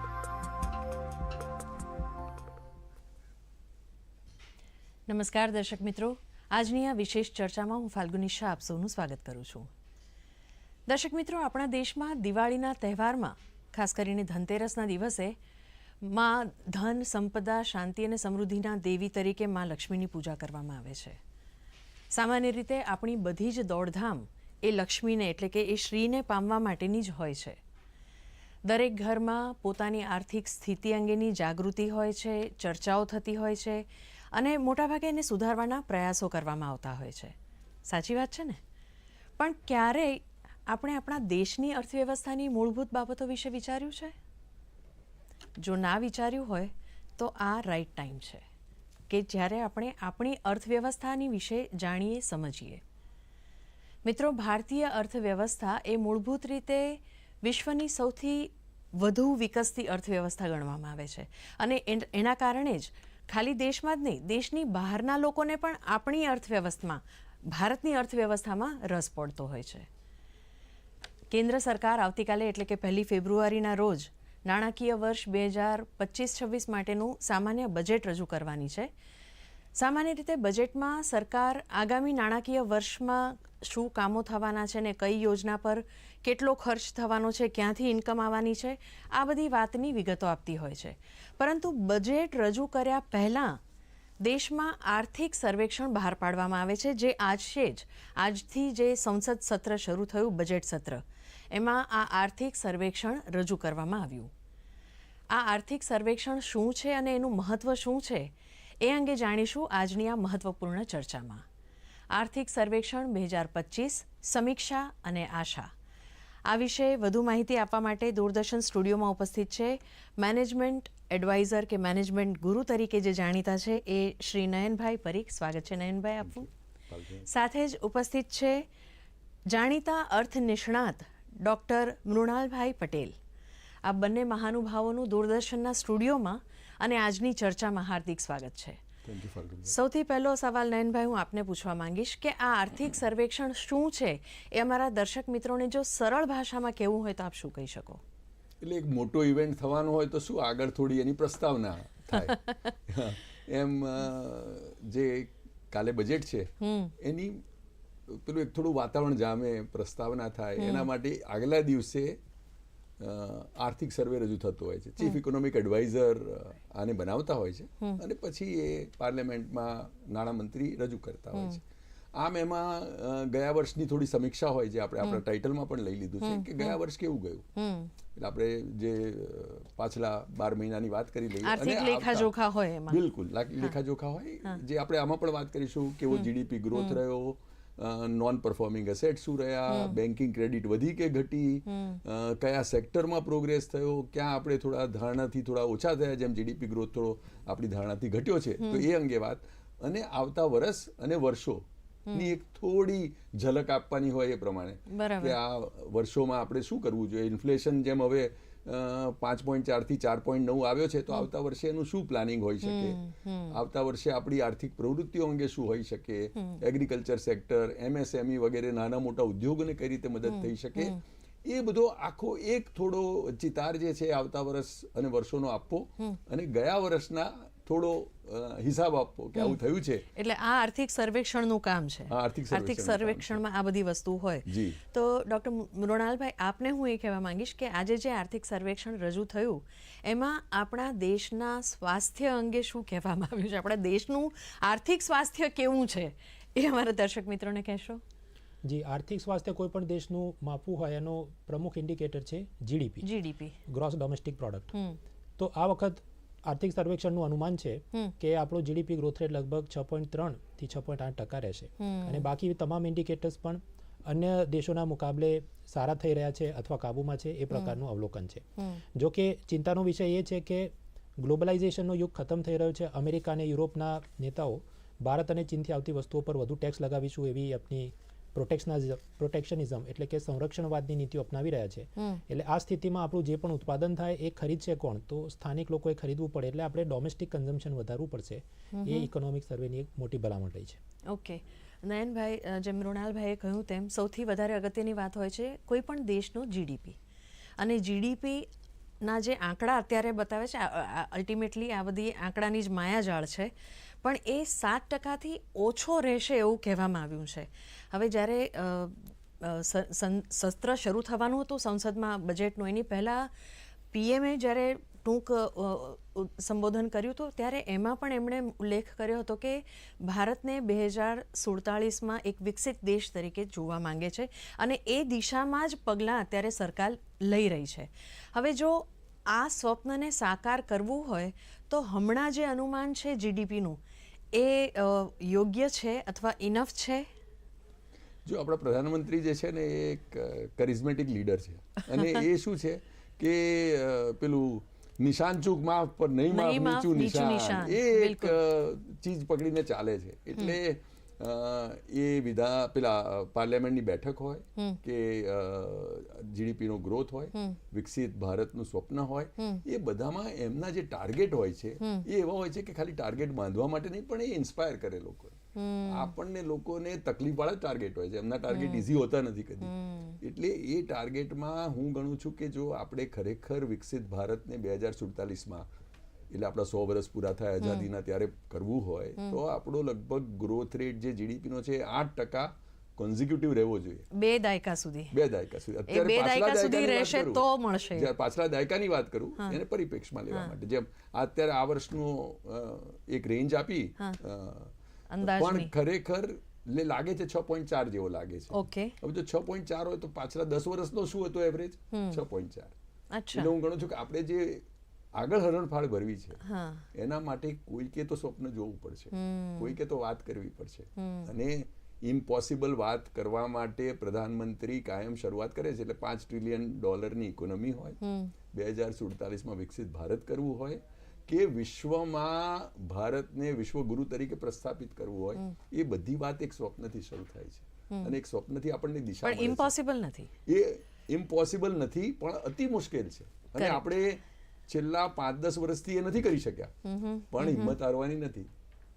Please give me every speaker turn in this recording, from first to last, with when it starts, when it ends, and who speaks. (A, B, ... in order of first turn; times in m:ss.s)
0:05.1-0:09.7 A
0:10.9-0:15.4 A
0:16.0-0:21.2 A
0:22.1-0:27.6 A
0:28.6-0:37.3 A
0:37.9-0:38.6 A
0:39.4-0:44.1 A
0:45.6-0:48.4 A
0:49.1-0:52.8 A
0:54.0-1:07.0 A
1:07.5-1:09.9 A
1:11.3-1:18.9 A
1:19.8-1:33.6 A
1:34.2-1:44.3 A
1:45.3-1:48.3 A
1:48.8-1:51.4 A
1:52.1-1:55.7 A
1:56.5-2:06.5 A
2:06.2-2:07.3 B
2:07.3-2:08.6 A
2:09.5-2:13.1 A
2:13.8-2:18.8 A
2:19.0-2:19.7 B
2:19.7-2:28.0 A
2:28.6-2:36.5 B
2:32.1-2:32.5 A
2:36.6-2:36.9 A
2:37.0-2:37.4 B
2:38.1-2:42.2 B
2:40.6-2:40.9 A
2:43.0-2:51.6 B
2:52.2-2:57.5 B
2:56.2-2:56.8 A
2:57.6-2:57.9 A
2:58.1-3:02.3 B
3:01.4-3:03.0 A
3:02.9-3:21.6 B
3:06.1-3:07.0 A
3:09.7-3:10.0 A
3:11.7-3:12.0 A
3:18.6-3:18.9 A
3:22.1-3:33.0 B
3:24.9-3:25.4 A
3:32.6-3:33.6 A
3:33.5-3:50.0 B
3:36.4-3:36.6 A
3:40.3-3:41.0 A
3:50.1-4:08.0 A
3:52.1-3:53.4 B
3:54.5-3:54.8 B
4:08.6-4:13.1 C
4:13.0-4:13.6 A
4:13.7-4:14.7 C
4:14.7-4:15.0 A
4:15.4-4:50.8 C
4:21.8-4:22.3 A
4:48.7-4:49.1 A
4:51.1-4:57.0 A
4:57.6-4:58.4 A
4:59.0-5:03.5 A
5:04.0-5:13.3 A
5:13.9-5:33.8 A
5:34.3-5:37.1 A
5:38.2-6:05.4 B
5:46.3-5:48.4 A
6:01.8-6:02.0 A
6:05.6-6:06.1 A
6:05.9-6:09.7 B
6:08.5-6:08.9 A
6:09.6-6:10.2 A
6:10.2-6:15.7 B
6:16.3-6:24.0 B
6:17.6-6:17.9 A
6:24.1-6:25.1 A
6:25.1-6:42.7 B
6:25.9-6:28.1 A
6:35.1-6:35.7 A
6:38.5-6:39.0 A
6:41.9-6:42.2 A
6:43.1-6:43.5 A
6:43.3-6:46.4 B
6:46.4-6:46.8 A
6:46.9-6:58.0 B
6:49.1-6:49.8 A
6:51.0-6:51.3 A
6:58.0-6:58.3 A
6:58.5-7:09.7 B
7:09.2-7:10.3 A
7:10.4-7:16.7 B
7:13.6-7:13.8 A
7:16.8-7:17.8 A
7:17.3-7:18.5 B